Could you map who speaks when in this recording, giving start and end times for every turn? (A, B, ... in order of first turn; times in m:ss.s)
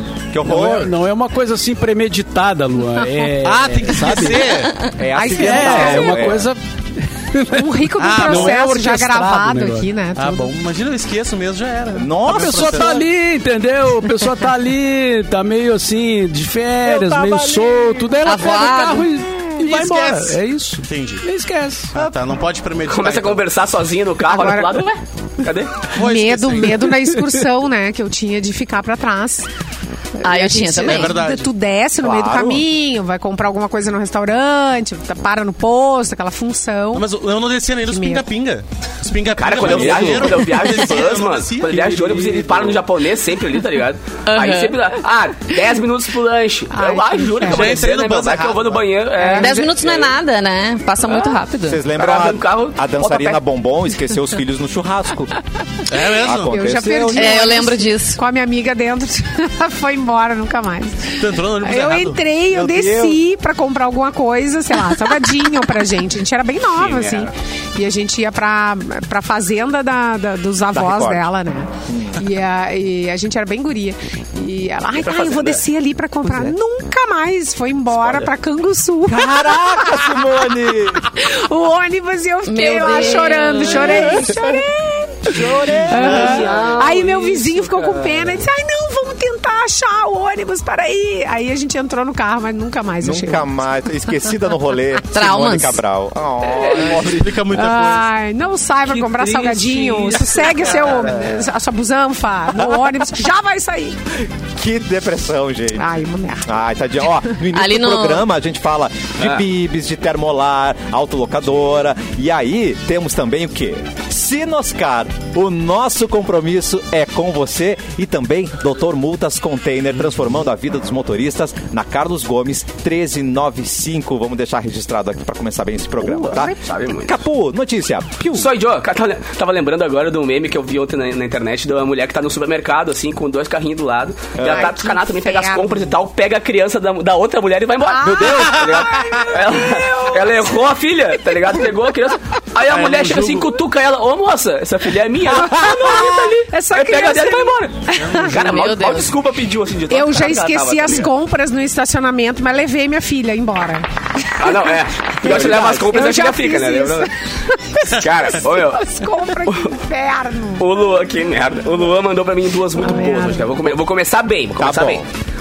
0:00.3-0:00.9 A
0:00.4-0:04.5 B
0:03.4-0:04.9 C
0:05.0-0:06.5 A
0:05.1-0:06.3 D
0:05.2-0:09.9 B
0:05.7-0:06.0 C
0:07.5-0:10.5 D
0:08.0-0:08.7 C
0:10.2-0:13.1 C
0:11.9-0:13.0 A
0:12.3-0:21.9 B
0:16.8-0:18.2 A
0:18.2-0:19.1 E
0:19.6-0:21.2 C
0:21.9-0:23.5 C
0:22.9-0:25.9 F
0:24.2-0:24.9 D
0:25.9-0:27.0 C
0:25.9-0:29.5 D
0:30.2-0:37.1 D
0:30.2-0:31.2 E
0:30.8-0:31.5 C
0:32.0-0:32.7 A
0:36.9-0:42.8 C
0:37.8-0:38.3 D
0:39.4-0:50.1 F
0:39.6-0:40.3 A
0:44.3-0:44.8 E
0:46.7-0:47.9 D
0:47.4-0:48.8 C
0:49.2-0:49.7 D
0:49.4-0:51.8 E
0:51.0-0:51.4 F
0:51.7-0:55.3 A
0:52.0-0:53.4 F
0:55.9-0:56.6 C
0:56.2-0:57.6 A
0:56.3-1:33.5 D
0:57.1-0:58.2 E
1:01.2-1:02.2 C
1:02.5-1:03.2 A
1:06.7-1:07.3 F
1:10.7-1:11.3 A
1:11.9-1:12.2 A
1:15.0-1:15.6 F
1:18.0-1:18.3 F
1:19.1-1:21.1 A
1:22.5-1:24.2 E
1:23.8-1:24.6 A
1:25.3-1:26.7 A
1:25.9-1:28.0 F
1:26.0-1:26.6 C
1:33.0-1:37.4 A
1:35.1-1:35.8 E
1:36.5-1:37.0 F
1:36.8-1:38.1 C
1:37.0-1:44.0 D
1:38.9-1:41.1 F
1:40.9-1:41.4 C
1:44.4-1:45.9 A
1:45.8-1:46.5 D
1:46.4-2:08.5 A
1:47.5-1:48.2 E
1:49.2-1:49.4 F
2:06.2-2:07.2 F
2:06.2-2:06.6 D
2:08.3-2:31.1 F
2:14.4-2:14.7 A
2:14.4-2:16.0 D
2:17.9-2:20.6 D
2:18.3-2:18.8 C
2:22.6-2:23.6 C
2:25.4-2:28.6 D
2:28.0-2:28.4 C
2:28.5-2:29.1 E
2:29.9-2:33.9 D
2:34.4-2:37.1 F
2:34.4-2:40.7 D
2:35.2-2:36.0 A
2:37.8-2:39.8 F
2:40.6-2:45.1 F
2:42.8-2:43.5 D
2:44.6-2:45.0 A